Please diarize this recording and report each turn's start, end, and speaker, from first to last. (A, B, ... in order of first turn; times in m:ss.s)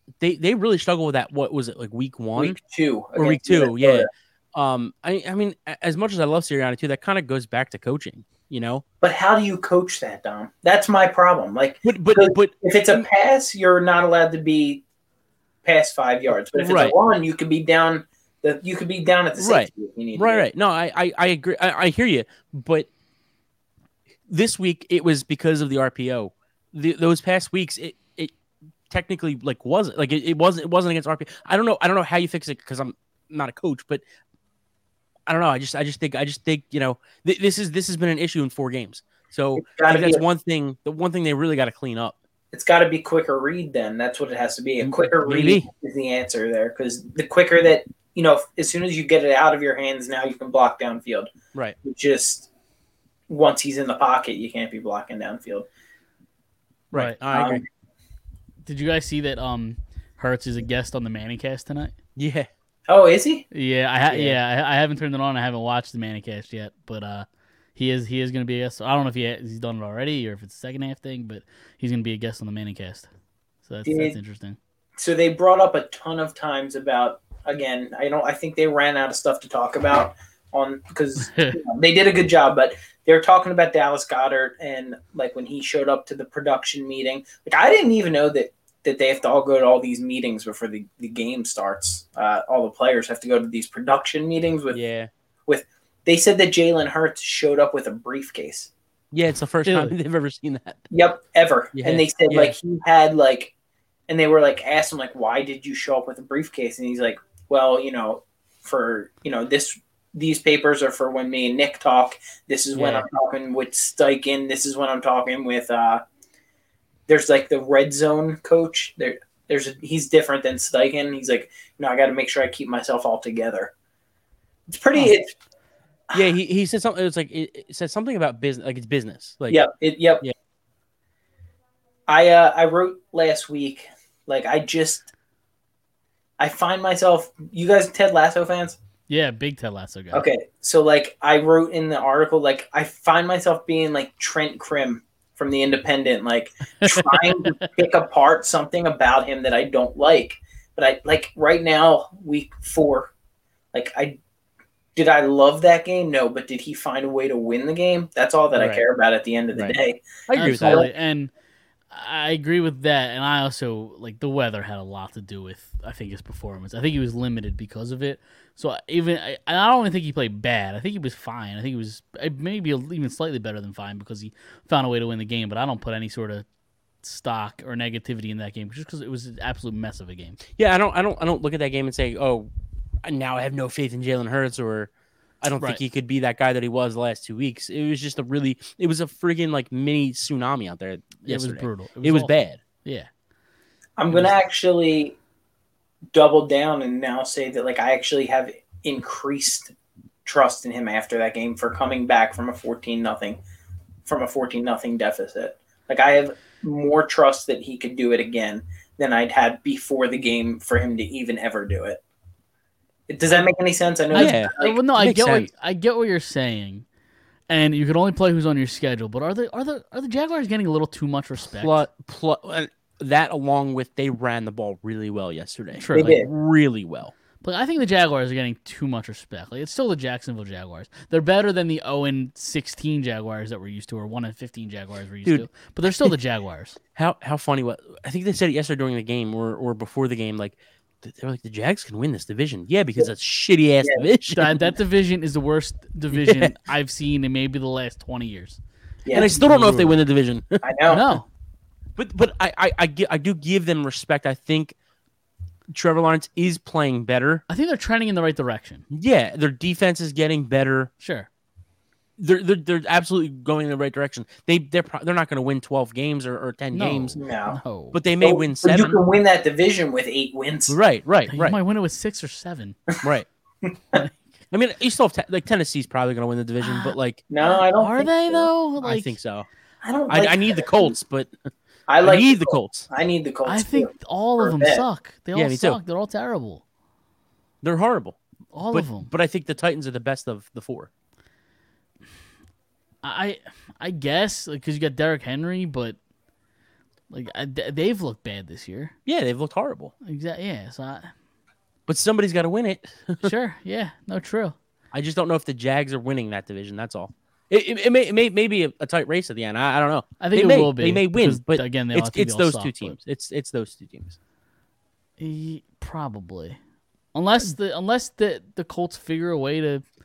0:00.2-0:02.6 A
0:02.4-0:04.1 B
0:03.2-0:08.8 A
0:09.0-0:14.8 B
0:11.8-0:13.0 A
0:15.6-0:20.4 B
0:16.5-0:17.0 A
0:19.4-0:22.9 A
0:24.3-0:28.3 A
0:28.9-0:34.0 A
0:35.3-0:42.1 A
0:39.6-0:40.2 B
0:42.5-0:51.3 B
0:44.8-0:45.7 A
0:51.8-0:52.5 B
0:53.3-0:55.7 B
0:56.9-0:57.6 A
0:56.9-0:57.2 C
0:57.3-0:57.6 B
0:58.6-1:01.9 C
1:02.2-1:02.5 A
1:02.9-1:03.4 B
1:03.5-1:13.1 C
1:04.1-1:04.4 A
1:13.6-1:14.6 C
1:13.8-1:14.2 B
1:15.0-1:34.8 B
1:21.2-1:21.6 C
1:34.7-1:35.1 A
1:35.5-1:38.7 B
1:39.1-1:40.8 A
1:39.6-1:39.9 C
1:40.9-1:43.5 B
1:41.7-1:42.5 A
1:44.1-1:56.0 B
1:52.8-1:53.0 C
1:57.1-2:03.7 B
2:04.7-2:05.3 B
2:06.1-2:09.6 A
2:09.5-2:10.2 B
2:12.1-2:15.1 B
2:16.4-2:18.8 B
2:19.1-2:20.2 C
2:20.1-2:33.1 B
2:33.7-2:34.2 B
2:34.9-2:40.9 B
2:38.5-2:38.8 A
2:40.3-2:40.8 A
2:40.3-2:41.3 C
2:41.9-2:56.4 C
2:57.0-3:00.4 C
3:00.5-3:02.5 A
3:03.0-3:04.9 A
3:05.4-3:12.6 A
3:11.2-3:12.3 C
3:12.8-3:13.1 C
3:14.0-3:15.2 B
3:16.1-3:19.7 B
3:20.2-3:23.4 B
3:24.0-3:32.0 B
3:33.1-3:34.8 B
3:34.1-3:36.8 C
3:34.1-3:35.5 A
3:37.5-3:41.8 C
3:41.6-3:47.1 A
3:45.8-3:46.2 C
3:45.9-3:46.3 B
3:47.4-3:56.8 C
3:56.9-4:04.6 A
4:04.3-4:08.6 C
4:06.1-4:06.5 A
4:09.0-4:09.3 B
4:09.1-4:10.0 C
4:09.1-4:10.6 A
4:10.6-4:11.2 B
4:10.9-4:11.3 C
4:12.0-4:14.7 A
4:15.7-4:17.4 A
4:17.5-4:18.8 C
4:18.9-4:20.9 A
4:21.0-4:21.3 C
4:22.2-4:27.2 A
4:26.7-4:28.0 C
4:27.2-4:27.6 B
4:27.9-4:29.0 A
4:28.2-4:30.8 B
4:30.7-4:31.6 A
4:31.3-4:32.8 C
4:33.9-4:34.2 C
4:34.5-4:37.2 A
4:36.6-4:39.2 C
4:37.3-4:38.5 B
4:38.8-4:39.5 A
4:39.8-4:40.9 B
4:40.1-4:41.3 A
4:41.9-4:44.8 B
4:42.0-4:42.9 A
4:43.4-4:46.6 C
4:45.3-4:45.8 A
4:47.6-4:48.2 A
4:48.5-4:49.1 C
4:48.7-4:50.9 A
4:53.0-4:56.0 C
4:57.1-4:58.9 C
4:59.0-4:59.9 A
5:00.0-5:01.1 C
5:01.9-5:03.3 A
5:03.2-5:04.6 C
5:04.9-5:14.2 A
5:10.2-5:13.0 C
5:15.2-5:16.6 C
5:17.1-5:19.8 C